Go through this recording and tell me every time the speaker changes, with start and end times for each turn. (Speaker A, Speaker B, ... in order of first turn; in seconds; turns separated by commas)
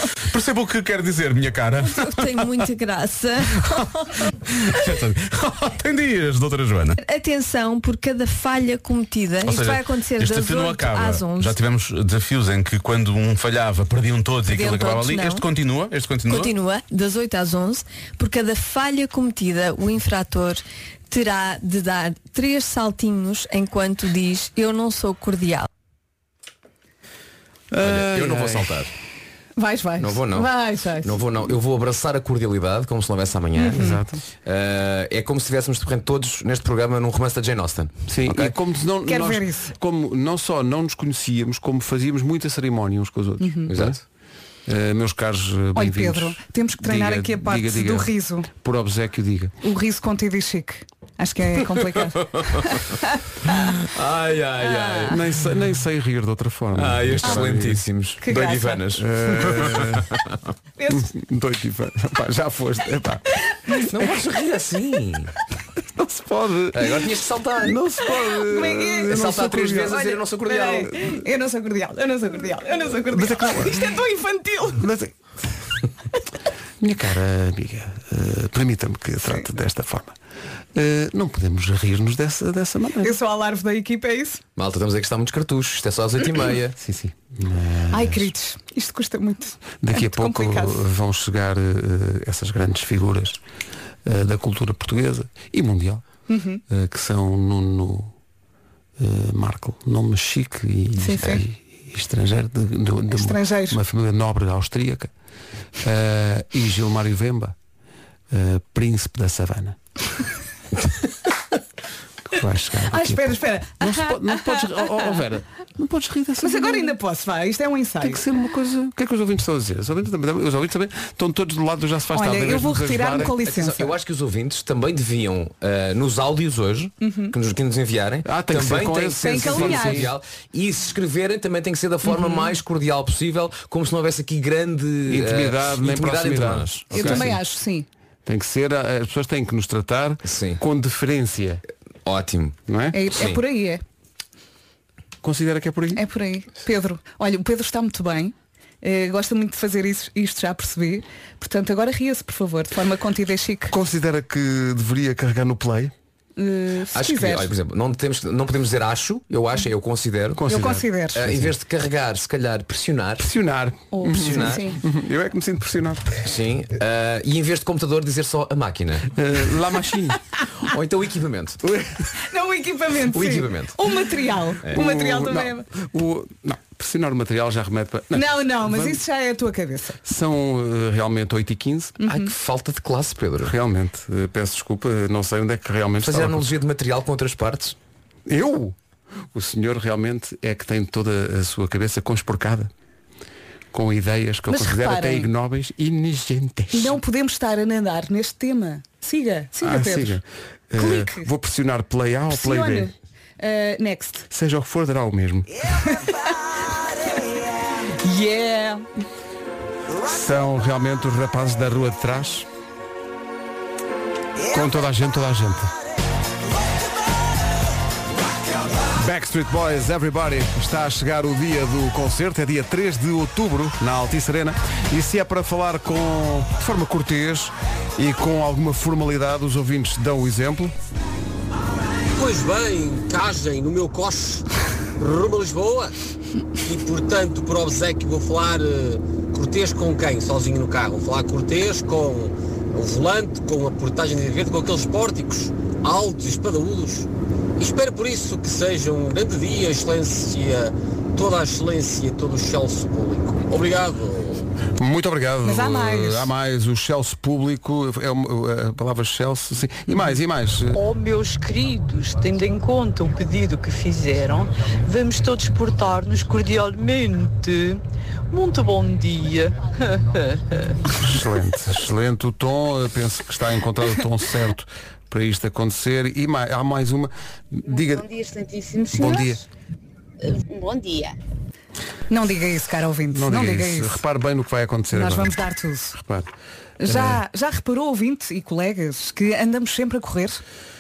Speaker A: 0.3-2.6, Speaker B: 1.8-4.3, Speaker A: 4.5-7.0, Speaker B: 7.0-11.6, Speaker A: 9.4-16.5, Speaker B: 14.5-15.5, Speaker B: 16.3-25.7, Speaker C: 27.7-28.8, Speaker D: 27.8-28.9, Speaker E: 29.6-31.2, Speaker D: 30.0-38.5, Speaker E: 33.6-34.0, Speaker C: 33.8-34.2, Speaker C: 38.1-44.0, Speaker E: 39.1-39.7, Speaker E: 43.4-43.7, Speaker D: 43.7-44.0, Speaker C: 44.7-49.5, Speaker E: 45.8-48.5, Speaker E: 49.6-53.1, Speaker D: 52.2-52.8, Speaker D: 53.8-55.2, Speaker E: 54.6-55.2, Speaker C: 55.1-57.8, Speaker D: 56.7-60.4, Speaker E: 58.2-58.8, Speaker C: 59.0-60.1, Speaker E: 60.8-61.1, Speaker C: 60.9-64.2, Speaker D: 63.9-65.3, Speaker C: 66.0-67.1, Speaker D: 66.7-67.8, Speaker C: 67.6-70.0, Speaker E: 68.5-69.2, Speaker D: 69.1-71.0, Speaker E: 69.9-74.8, Speaker C: 73.1-73.9, Speaker C: 74.7-75.1, Speaker C: 76.8-80.2, Speaker C: 80.7-83.1, Speaker E: 83.0-84.4, Speaker D: 84.6-86.7, Speaker C: 86.8-88.3, Speaker E: 87.9-90.8, Speaker C: 89.8-93.4, Speaker C: 94.0-96.0, Speaker E: 96.3-96.6, Speaker C: 96.7-98.1, Speaker C: 99.0-105.1, Speaker E: 101.0-101.4, Speaker E: 103.1-103.8, Speaker C: 105.8-107.6, Speaker C: 108.3-109.8, Speaker C: 112.3-117.0, Speaker E: 112.9-115.2, Speaker E: 116.4-118.2, Speaker C: 118.0-123.4, Speaker E: 122.1-123.9, Speaker D: 123.3-137.3, Speaker E: 127.0-127.3, Speaker C: 128.2-130.1, Speaker E: 129.2-130.1, Speaker E: 132.1-132.5, Speaker C: 135.1-137.4, Speaker E: 136.9-137.9, Speaker C: 138.2-141.6, Speaker D: 140.2-140.6, Speaker D: 142.1-142.6, Speaker C: 142.7-143.0, Speaker E: 142.9-143.8, Speaker D: 143.1-143.4, Speaker C: 145.2-146.0, Speaker E: 146.0-153.7, Speaker C: 153.7-155.9, Speaker E: 156.4-157.5, Speaker D: 156.9-160.4, Speaker C: 160.3-160.9, Speaker E: 160.5-161.3, Speaker D: 161.1-163.3, Speaker C: 163.2-166.1, Speaker E: 163.9-164.8, Speaker D: 164.1-164.7, Speaker D: 166.2-169.1, Speaker C: 169.2-170.2, Speaker D: 170.6-171.6, Speaker C: 171.6-172.1, Speaker E: 172.2-175.7, Speaker D: 173.1-173.8, Speaker C: 174.7-179.0, Speaker E: 178.1-180.0, Speaker C: 180.1-182.0, Speaker E: 182.0-182.3, Speaker D: 182.1-183.5, Speaker C: 183.4-186.6, Speaker D: 186.0-187.8, Speaker C: 188.3-188.8, Speaker C: 189.3-192.7, Speaker C: 193.7-197.0, Speaker E: 194.5-195.3, Speaker E: 196.7-200.2, Speaker C: 199.6-202.9, Speaker E: 200.8-201.3, Speaker E: 202.3-204.3, Speaker C: 204.3-205.5, Speaker E: 205.9-206.2, Speaker E: 208.0-208.8, Speaker C: 210.1-212.5, Speaker C: 214.5-215.7, Speaker C: 218.9-230.8, Speaker F: 232.2-234.4, Speaker F: 235.0-236.0, Speaker F: 236.6-254.4, Speaker C: 254.8-260.8, Speaker E: 255.4-256.3, Speaker G: 260.7-270.8, Speaker C: 271.0-278.1, Speaker H: 277.7-279.4, Speaker C: 278.9-279.4, Speaker H: 280.4-281.2, Speaker E: 282.1-284.0, Speaker C: 283.1-285.4, Speaker E: 284.9-286.0, Speaker C: 286.0-286.3, Speaker E: 286.8-290.4, Speaker C: 286.9-287.2